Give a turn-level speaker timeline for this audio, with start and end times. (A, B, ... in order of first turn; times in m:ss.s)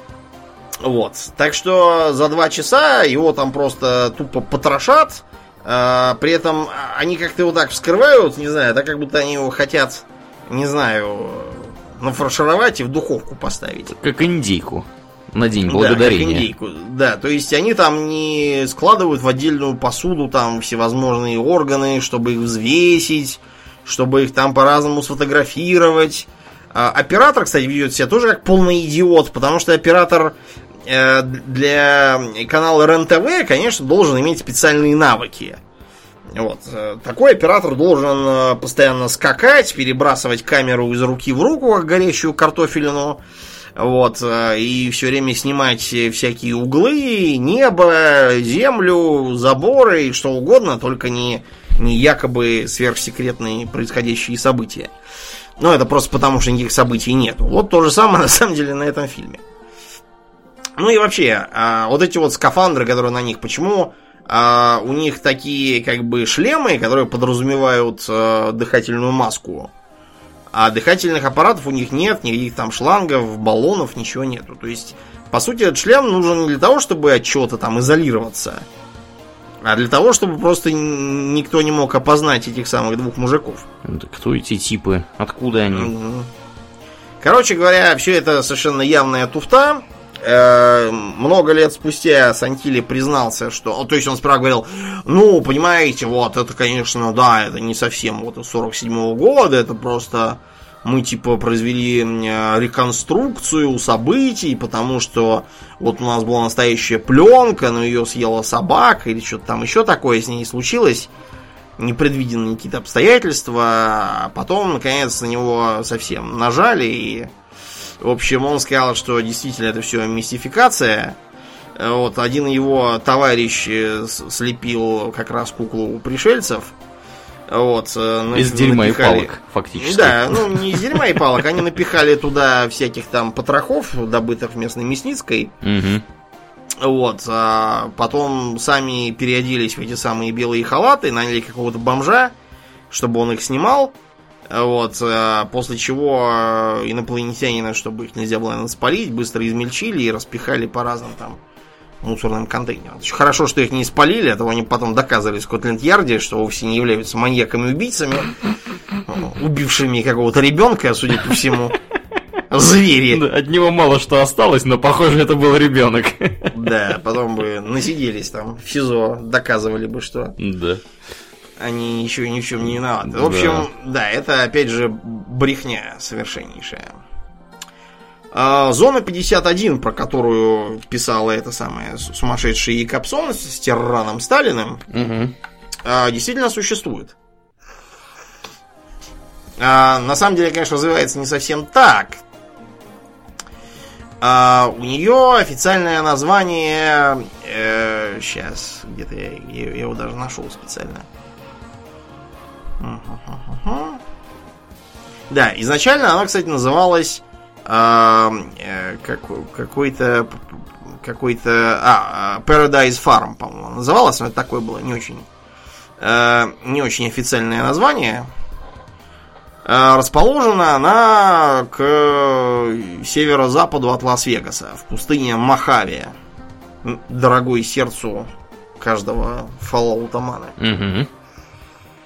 0:00.8-0:13.9 A
0:13.9-0:16.5 B
0:15.7-0:35.6 A
0:36.3-0:43.2 A
0:43.8-0:54.9 A
0:55.6-0:59.4 A
1:00.8-1:09.7 A
1:10.5-1:18.7 A
1:19.6-1:23.6 A
1:23.8-1:25.9 B
1:25.7-1:26.3 A
1:27.2-1:51.1 A
1:51.8-1:57.3 A
1:58.0-2:01.2 A
2:01.8-2:06.7 A
2:07.5-2:15.5 A
2:08.3-2:11.2 B
2:15.6-2:16.0 B
2:16.8-2:22.3 A
2:22.9-2:23.9 A
2:24.5-2:31.4 A
2:32.0-2:38.4 A
2:39.1-2:41.8 A
2:42.5-2:43.2 A
2:43.1-2:46.6 B
2:46.5-2:50.4 A
2:50.4-2:50.8 B
2:51.6-2:56.9 A
2:53.0-2:53.7 B
2:58.3-3:04.8 A
3:04.9-3:05.3 B
3:05.8-3:07.1 A
3:09.6-3:12.2 A
3:14.2-3:21.1 A
3:22.8-3:24.0 A
3:25.3-3:35.3 A
3:36.0-3:38.3 A
3:39.6-3:46.1 A
3:46.8-3:50.6 A
3:50.6-3:51.1 B